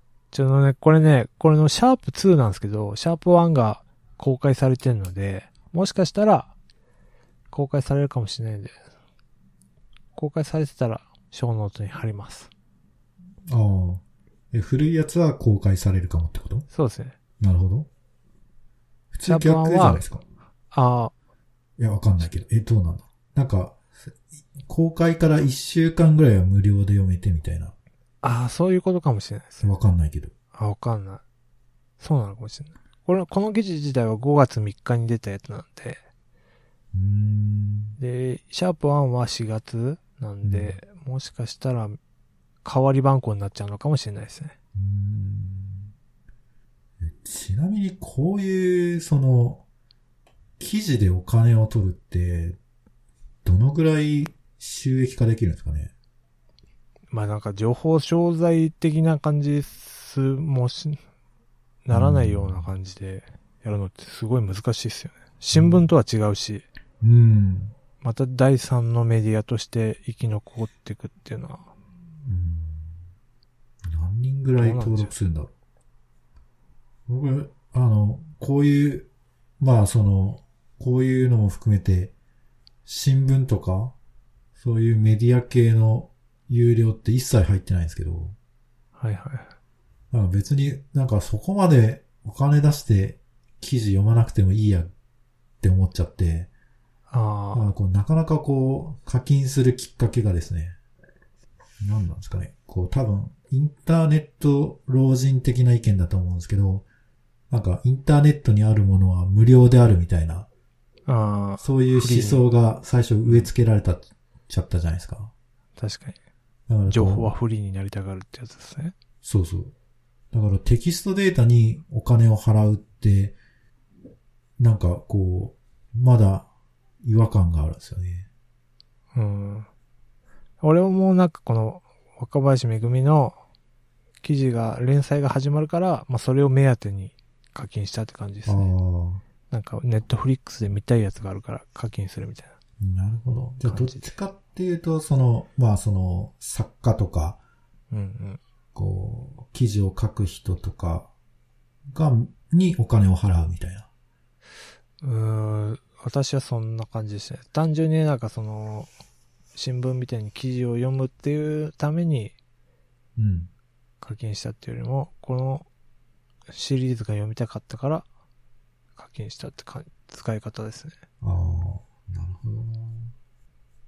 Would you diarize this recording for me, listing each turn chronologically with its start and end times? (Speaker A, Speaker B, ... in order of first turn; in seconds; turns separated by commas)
Speaker A: 0.3-6.5, Speaker A: 7.5-8.8, Speaker A: 10.2-12.5, Speaker B: 13.4-16.6, Speaker A: 16.7-17.1, Speaker B: 17.4-17.9, Speaker B: 19.1-20.2, Speaker A: 19.2-20.0, Speaker A: 20.7-21.1, Speaker B: 21.8-23.9, Speaker B: 24.6-27.7, Speaker A: 28.2-29.7, Speaker B: 29.6-30.3, Speaker A: 30.5-31.2, Speaker A: 32.0-36.0, Speaker B: 36.9-38.0, Speaker A: 38.0-42.0, Speaker B: 40.4-40.8, Speaker A: 42.6-44.5, Speaker B: 44.8-45.9, Speaker B: 47.0-49.6, Speaker B: 50.6-52.6, Speaker B: 53.4-55.9, Speaker A: 57.1-61.0, Speaker A: 61.8-66.7, Speaker B: 61.9-62.7, Speaker B: 65.5-65.9, Speaker B: 67.0-67.7, Speaker A: 68.0-71.7, Speaker B: 72.2-73.0, Speaker B: 73.9-75.5, Speaker A: 74.6-75.1, Speaker B: 77.1-79.1, Speaker B: 79.6-82.1, Speaker B: 82.8-83.9, Speaker B: 84.5-88.3, Speaker A: 89.0-89.5, Speaker B: 90.1-94.9, Speaker B: 95.6-96.5, Speaker A: 97.1-97.6, Speaker B: 97.5-100.8, Speaker B: 101.8-106.8, Speaker B: 107.5-110.5, Speaker A: 111.1-112.4, Speaker B: 111.6-115.3, Speaker A: 115.8-116.2, Speaker B: 116.7-117.3, Speaker A: 116.9-118.9, Speaker B: 119.2-119.7, Speaker B: 120.3-123.4, Speaker B: 124.6-126.5, Speaker B: 127.0-128.3, Speaker A: 129.1-129.7, Speaker A: 130.6-133.4, Speaker A: 134.2-138.7, Speaker B: 138.4-139.2, Speaker A: 139.5-142.5, Speaker B: 142.8-147.4, Speaker A: 143.6-144.1, Speaker A: 147.9-148.4, Speaker B: 148.7-151.1, Speaker B: 151.9-153.9, Speaker A: 155.0-158.9, Speaker A: 159.5-162.3, Speaker B: 163.2-163.5, Speaker A: 164.0-165.7, Speaker A: 166.5-168.1, Speaker A: 168.9-171.0, Speaker B: 171.2-173.1